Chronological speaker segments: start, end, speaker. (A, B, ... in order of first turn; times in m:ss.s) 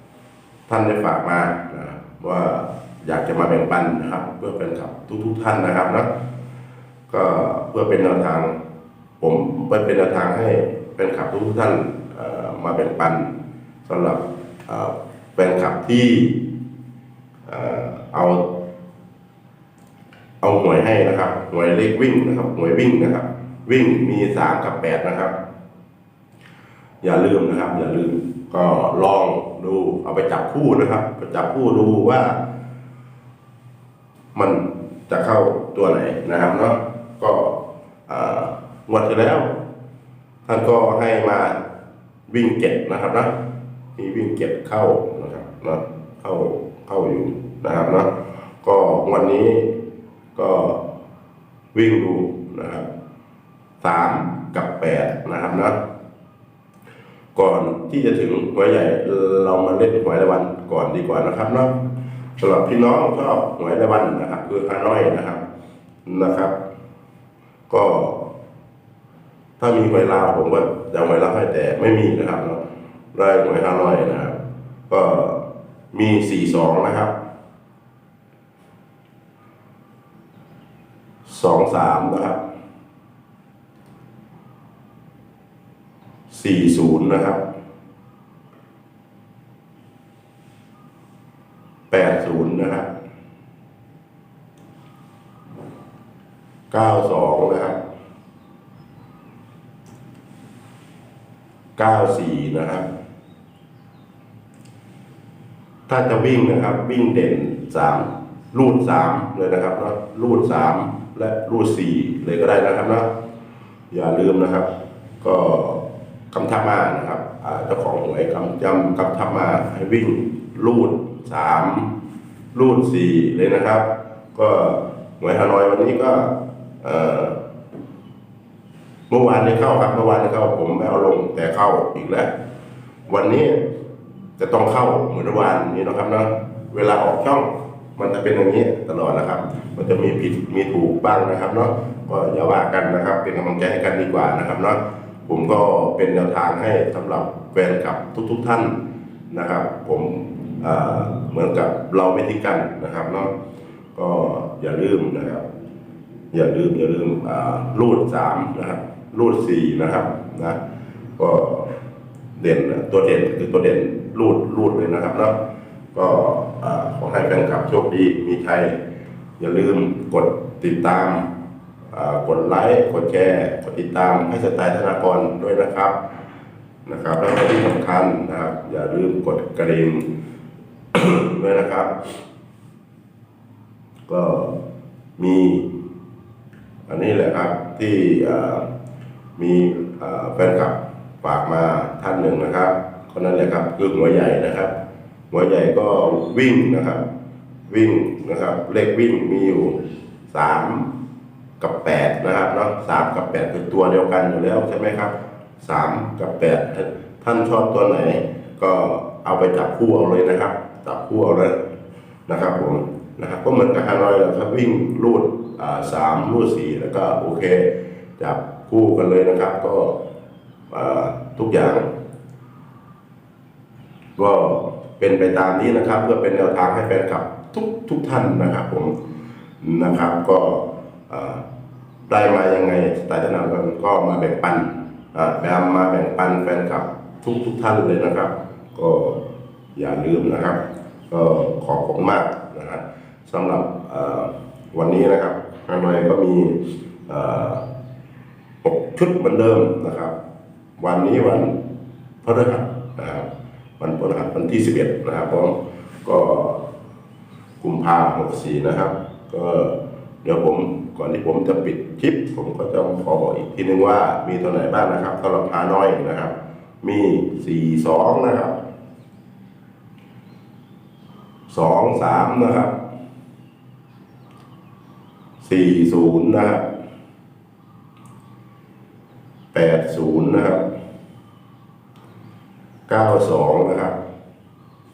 0:00.7-0:06.1 A
0:07.1-0:08.5 A
0:09.2-0:13.3 A
0:13.8-0:16.4 A
0:17.5-0:18.5 A
0:20.4-0:25.3 A
0:27.0-0:32.4 A
0:34.3-0:39.5 A
0:40.4-0:41.6 A
0:42.3-0:43.3 A
0:44.0-0:49.8 A
0:50.3-0:50.8 A
0:51.7-0:52.8 A
0:53.8-0:55.8 A
0:57.3-1:01.8 A
1:02.4-1:05.4 A
1:06.0-1:06.5 A
1:07.7-1:08.3 A
1:09.6-1:12.6 A
1:13.1-1:14.4 A
1:14.9-1:15.4 A
1:15.9-1:17.1 A
1:21.2-1:22.4 A
1:26.3-1:27.4 A
1:31.9-1:32.9 A
1:36.7-1:37.8 A
1:41.8-1:42.8 A
1:45.9-1:53.1 A
1:53.9-1:54.7 A
1:55.2-2:01.9 A
2:02.5-2:07.4 A
2:09.1-2:12.3 A
2:13.1-2:13.6 A
2:14.4-2:28.8 A
2:29.3-2:33.3 A
2:33.9-2:35.4 A
2:36.3-2:40.6 A
2:41.2-2:41.7 A
2:42.4-2:45.4 A
2:45.9-2:48.8 A
2:49.4-2:51.3 A
2:51.9-2:56.0 A
2:56.8-3:00.0 A
3:00.9-3:02.1 A
3:04.1-3:04.5 A
3:05.2-3:05.7 A
3:06.9-3:08.6 A
3:09.4-3:14.7 A
3:15.3-3:17.0 A
3:17.7-3:20.9 A
3:21.6-3:31.6 A
3:32.3-3:40.0 A
3:40.7-3:41.8 A
3:44.2-3:48.9 A
3:49.6-3:51.4 A
3:52.1-3:59.2 A
3:59.8-4:07.6 A
4:08.6-4:10.1 A
4:10.8-4:11.6 A
4:12.2-4:13.3 A
4:13.8-4:16.6 A
4:17.6-4:28.5 A
4:31.5-4:32.7 A
4:35.4-4:36.6 A
4:39.5-4:40.6 A
4:42.9-4:44.0 A